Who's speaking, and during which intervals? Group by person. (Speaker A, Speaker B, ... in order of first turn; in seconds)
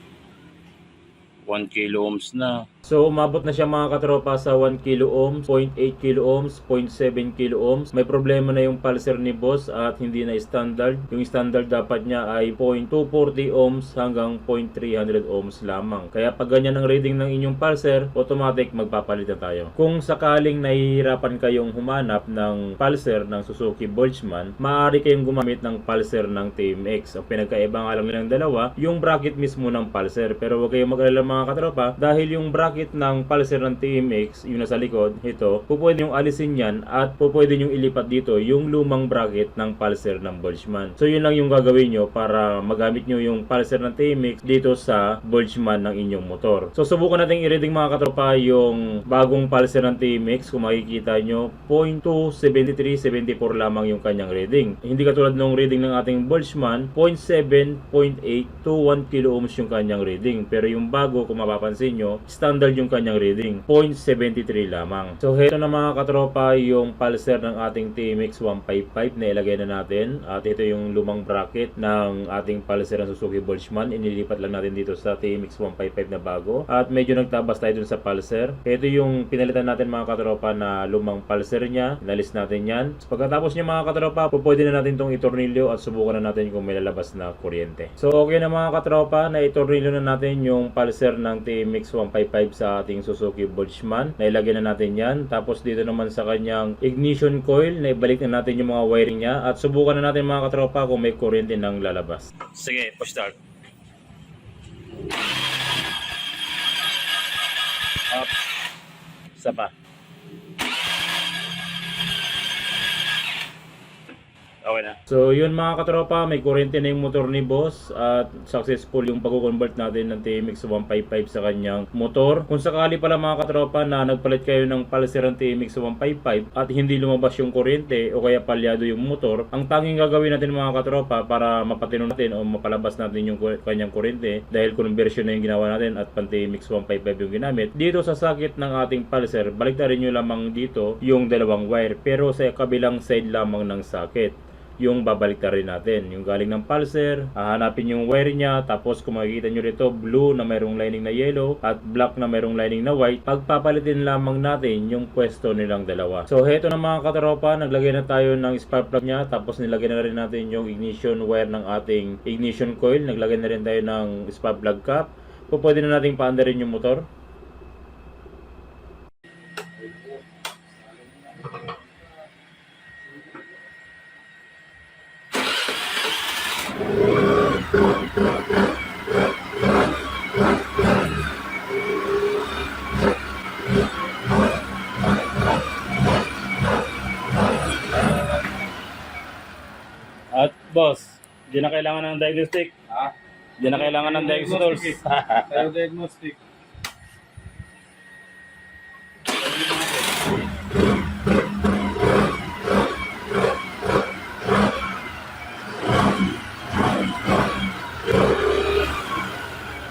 Speaker A: 1.5-2.7, 102.5-103.3, 109.4-109.7, 114.6-115.0, 190.3-192.7, 193.6-195.6
Speaker B: 2.9-102.4, 115.1-167.1
Speaker C: 192.9-196.4, 199.4-200.2